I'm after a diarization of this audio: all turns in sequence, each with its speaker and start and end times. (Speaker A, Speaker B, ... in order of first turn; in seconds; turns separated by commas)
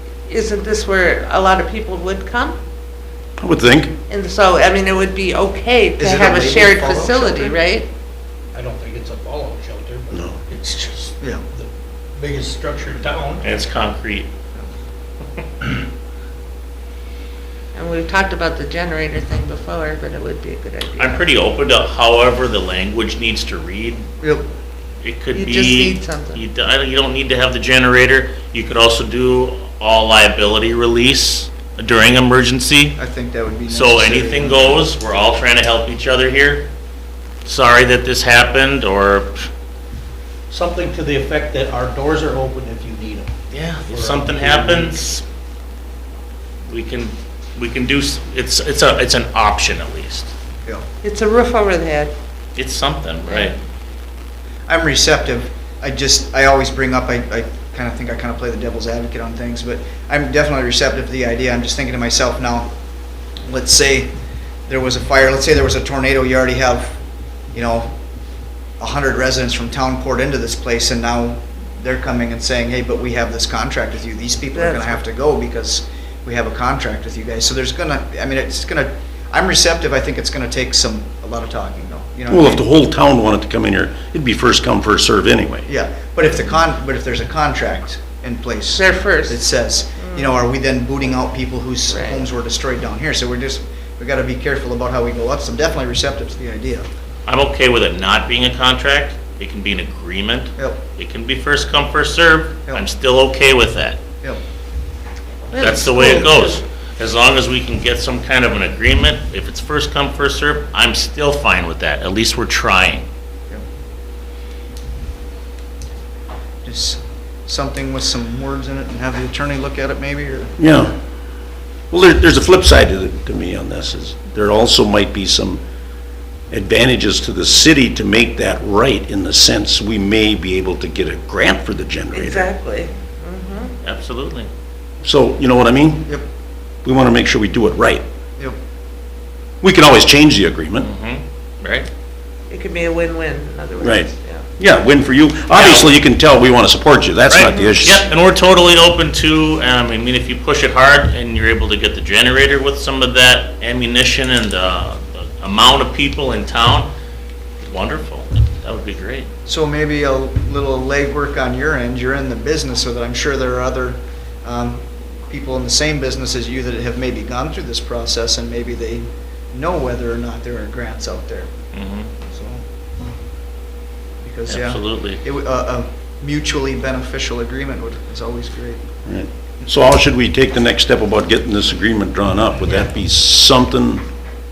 Speaker A: 0.3-2.6, Speaker B: 3.4-3.9, Speaker A: 4.1-7.9, Speaker C: 6.0-7.6, Speaker D: 8.5-13.4, Speaker B: 10.1-10.4, Speaker E: 13.4-14.3, Speaker A: 17.7-21.2, Speaker E: 21.0-24.0, Speaker C: 24.2-24.5, Speaker E: 25.0-33.0, Speaker A: 25.3-26.4, Speaker C: 33.0-34.9, Speaker E: 33.7-36.7, Speaker E: 37.4-39.5, Speaker D: 40.5-43.3, Speaker E: 43.5-45.2, Speaker D: 43.9-45.0, Speaker E: 46.7-50.3, Speaker A: 51.0-52.1, Speaker E: 52.5-53.5, Speaker A: 53.3-53.5, Speaker C: 54.7-62.7, Speaker C: 63.5-64.1, Speaker C: 64.7-67.0, Speaker C: 67.5-67.9, Speaker C: 68.8-82.6, Speaker A: 74.5-75.0, Speaker B: 82.3-85.7, Speaker C: 85.7-96.9, Speaker A: 88.7-89.4, Speaker A: 90.0-90.3, Speaker A: 91.9-92.2, Speaker E: 97.2-104.0, Speaker A: 105.5-106.6, Speaker E: 105.5-113.1, Speaker C: 116.6-120.5, Speaker B: 120.6-120.9, Speaker B: 121.9-125.6, Speaker B: 126.5-132.5, Speaker A: 132.1-133.7, Speaker E: 133.8-134.5, Speaker B: 135.0-136.1, Speaker B: 136.8-138.0, Speaker B: 139.6-140.9, Speaker E: 140.8-141.9, Speaker A: 142.5-144.4, Speaker B: 143.8-148.0, Speaker E: 145.5-145.9, Speaker E: 147.3-156.9, Speaker E: 157.6-159.3, Speaker C: 159.4-171.5, Speaker E: 171.7-172.1, Speaker C: 172.2-172.6, Speaker C: 174.2-178.9, Speaker E: 174.5-175.2, Speaker B: 179.1-184.0